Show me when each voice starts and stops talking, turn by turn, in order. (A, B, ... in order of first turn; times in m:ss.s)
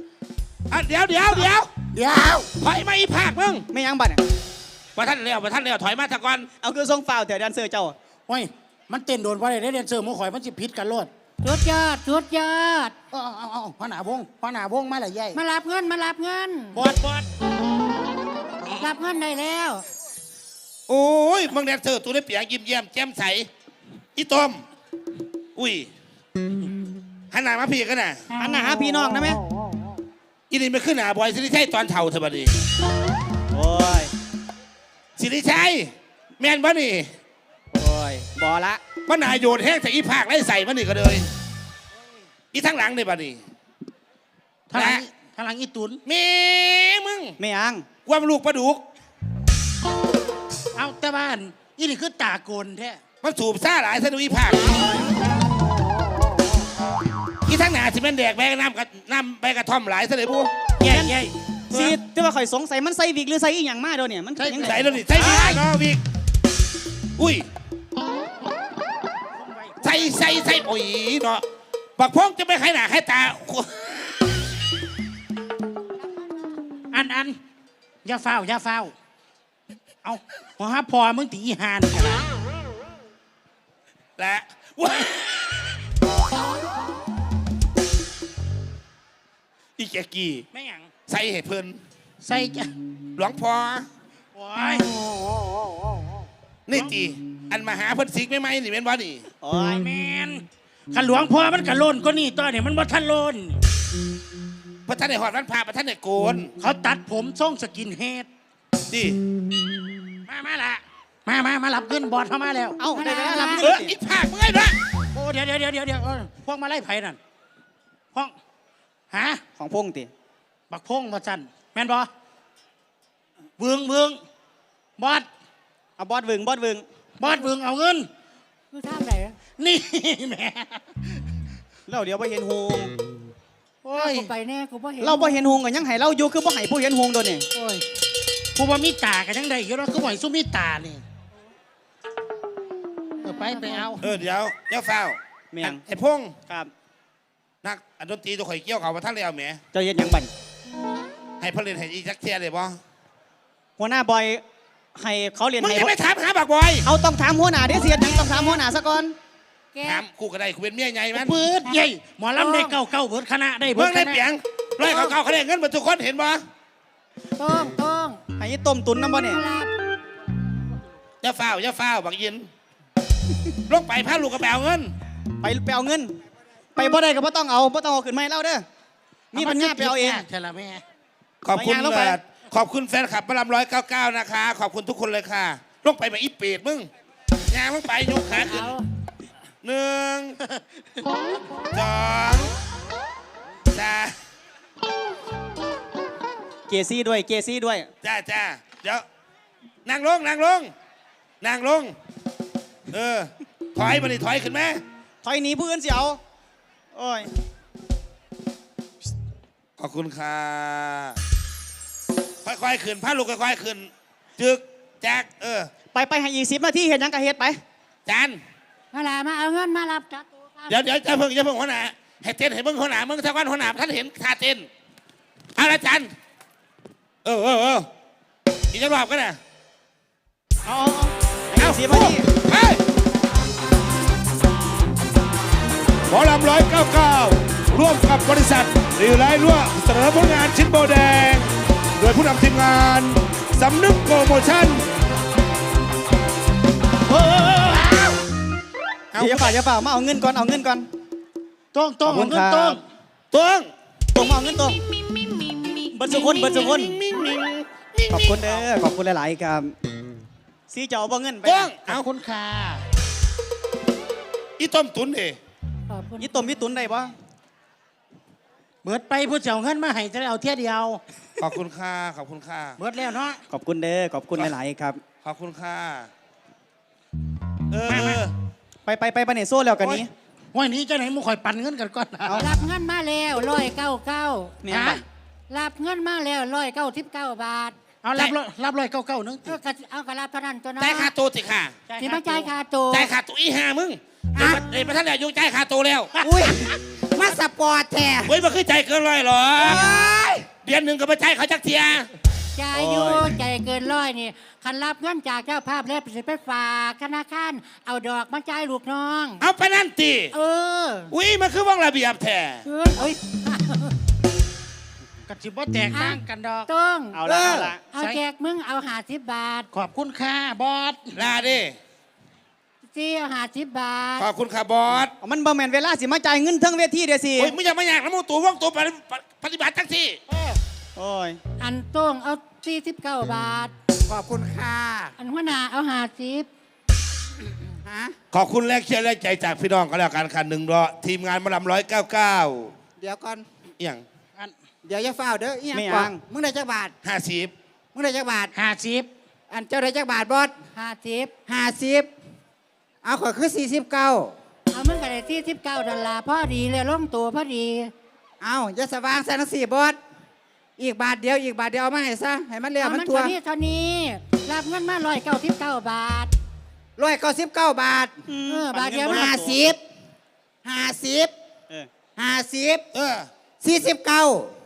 0:00.7-0:01.7 A
0:01.9-0:02.5 B
0:02.6-0:03.6 A
0:03.7-0:04.2 C
0:05.0-0:06.5 A
0:06.6-0:08.0 C
0:08.3-0:11.1 B
0:11.4-0:12.9 D
0:13.1-0:15.4 B
0:15.3-0:16.8 D
0:16.8-0:17.3 B
0:18.7-0:19.8 D
0:20.9-0:23.5 A
0:24.2-0:24.6 A
0:25.6-0:25.9 A
0:27.3-0:28.2 A
0:28.4-0:29.4 C
0:30.5-0:32.6 A
0:33.5-0:34.1 C
0:35.2-0:37.1 A
0:37.7-0:38.8 C
0:39.0-0:41.3 A
0:42.5-0:43.4 A
0:44.7-0:46.0 B
0:44.7-0:45.0 A
0:46.0-0:47.4 A
0:47.4-0:47.8 C
0:48.0-0:48.8 A
0:50.8-0:53.0 B
0:53.2-0:54.8 A
0:57.4-1:00.5 A
1:00.8-1:01.3 B
1:00.9-1:01.2 C
1:01.7-1:02.0 A
1:01.7-1:05.6 C
1:04.4-1:05.5 B
1:04.6-1:06.0 A
1:07.2-1:07.4 A
1:09.3-1:10.1 B
1:09.8-1:11.4 A
1:12.0-1:14.1 A
1:16.9-1:17.4 B
1:18.0-1:18.9 B
1:20.0-1:22.2 B
1:24.2-1:25.7 A
1:29.8-1:30.4 A
1:30.5-1:30.9 B
1:31.1-1:31.8 A
1:32.2-1:32.7 B
1:33.2-1:33.9 A
1:34.3-1:35.0 B
1:36.7-1:39.2 A
1:39.4-1:39.8 C
1:39.8-1:43.6 B
1:44.8-1:46.5 A
1:46.6-1:48.3 B
1:48.9-1:49.2 A
1:50.3-1:52.8 B
1:52.8-1:53.9 C
1:52.9-1:53.6 D
1:53.6-1:54.8 A
1:55.1-1:57.2 B
1:59.1-1:59.4 B
1:59.6-2:00.1 C
2:00.7-2:02.1 B
2:03.6-2:04.2 B
2:05.0-2:05.3 B
2:06.0-2:06.8 C
2:07.2-2:08.1 B
2:08.7-2:09.4 D
2:09.6-2:10.9 B
2:11.9-2:12.9 C
2:13.8-2:14.3 B
2:13.9-2:15.4 D
2:15.0-2:17.4 C
2:17.5-2:17.8 B
2:18.6-2:21.0 B
2:23.2-2:24.0 B
2:23.5-2:24.0 D
2:24.0-2:26.4 A
2:25.5-2:25.8 C
2:26.5-2:26.7 C
2:27.6-2:29.6 A
2:29.7-2:30.3 C
2:31.4-2:32.8 A
2:33.8-2:34.4 C
2:34.9-2:35.9 C
2:35.6-2:36.9 A
2:36.8-2:39.1 C
2:37.8-2:38.6 D
2:39.7-2:40.0 D
2:39.8-2:41.4 A
2:41.1-2:44.2 B
2:42.4-2:42.8 D
2:43.7-2:46.4 A
2:47.4-2:48.2 D
2:48.4-2:49.4 C
2:49.2-2:49.7 D
2:51.2-2:52.5 A
2:53.7-2:54.9 A
2:55.4-2:56.2 C
2:56.8-2:58.6 C
2:59.3-3:00.3 C
2:59.3-3:00.8 B
3:01.4-3:06.9 A
3:01.5-3:02.2 C
3:07.5-3:08.8 A
3:08.3-3:08.8 D
3:09.6-3:10.4 A
3:11.7-3:12.5 A
3:13.7-3:14.1 A
3:16.7-3:17.9 C
3:18.0-3:19.0 A
3:19.8-3:20.7 A
3:21.4-3:21.9 A
3:22.9-3:24.8 A
3:25.2-3:26.2 C
3:26.9-3:27.3 C
3:29.8-3:31.2 A
3:32.4-3:35.7 A
3:35.9-3:37.6 C
3:38.0-3:38.4 A
3:38.9-3:40.8 D
3:40.7-3:44.7 A
3:45.6-3:46.1 A
3:47.2-3:47.9 A
3:48.7-3:49.4 A
3:50.6-3:52.3 C
3:51.6-3:52.8 A
3:56.1-4:04.9 A
4:07.1-4:08.1 B
4:09.1-4:09.6 A
4:09.2-4:10.9 C
4:11.7-4:12.8 B
4:12.0-4:12.8 C
4:13.3-4:13.7 A
4:14.1-4:14.8 C
4:15.9-4:16.9 C
4:16.1-4:18.6 A
4:18.1-4:19.7 C
4:20.7-4:21.7 C
4:21.4-4:22.0 A
4:21.9-4:22.8 B
4:24.6-4:25.4 A
4:25.9-4:26.3 D
4:26.2-4:27.1 C
4:28.8-4:31.0 B
4:31.4-4:32.8 A
4:32.8-4:33.4 B
4:33.5-4:35.0 C
4:35.2-4:36.1 A
4:37.7-4:38.3 A
4:37.9-4:38.2 B
4:38.8-4:40.1 C
4:39.8-4:40.0 A
4:40.5-4:42.3 B
4:42.2-4:42.5 C
4:42.3-4:44.6 D
4:44.6-4:45.0 C
4:44.7-4:45.0 B
4:45.5-4:47.8 D
4:48.0-4:49.5 B
4:49.5-4:51.1 D
4:50.8-4:51.8 A
4:51.9-4:52.5 B
4:52.0-4:53.1 D
4:52.9-4:56.1 A
4:54.3-4:54.6 E
4:56.2-4:58.3 E
4:58.2-4:59.9 A
4:59.6-5:00.5 E
5:00.6-5:02.1 A
5:02.6-5:09.5 D
5:02.7-5:03.3 C
5:09.4-5:10.3 A
5:10.3-5:11.1 D
5:11.1-5:12.6 A
5:12.6-5:13.9 D
5:15.3-5:16.7 B
5:15.9-5:17.2 D
5:17.1-5:17.8 C
5:17.3-5:17.6 E
5:17.8-5:19.7 D
5:19.7-5:21.1 B
5:21.1-5:21.8 A
5:22.8-5:24.3 D
5:24.2-5:25.1 A
5:25.2-5:27.5 C
5:27.4-5:30.2 A
5:31.0-5:31.4 C
5:31.6-5:33.7 D
5:34.1-5:35.1 E
5:35.2-5:36.5 D
5:37.8-5:38.1 E
5:38.3-5:42.7 A
5:43.0-5:43.4 E
5:43.8-5:44.0 A
5:44.8-5:46.9 E
5:45.7-5:46.2 C
5:47.0-5:47.5 A
5:47.9-5:48.5 E
5:48.5-5:49.1 B
5:49.5-5:50.5 E
5:50.7-5:51.3 D
5:51.5-5:52.1 E
5:53.0-5:54.4 E
5:54.7-5:57.9 D
5:58.4-6:00.0 E
6:00.8-6:03.3 E
6:02.8-6:06.3 D
6:07.0-6:08.2 E
6:08.3-6:09.6 C
6:08.5-6:09.4 D
6:09.0-6:09.8 E
6:10.6-6:11.3 E
6:12.2-6:12.8 E
6:12.9-6:13.3 A
6:13.6-6:14.5 E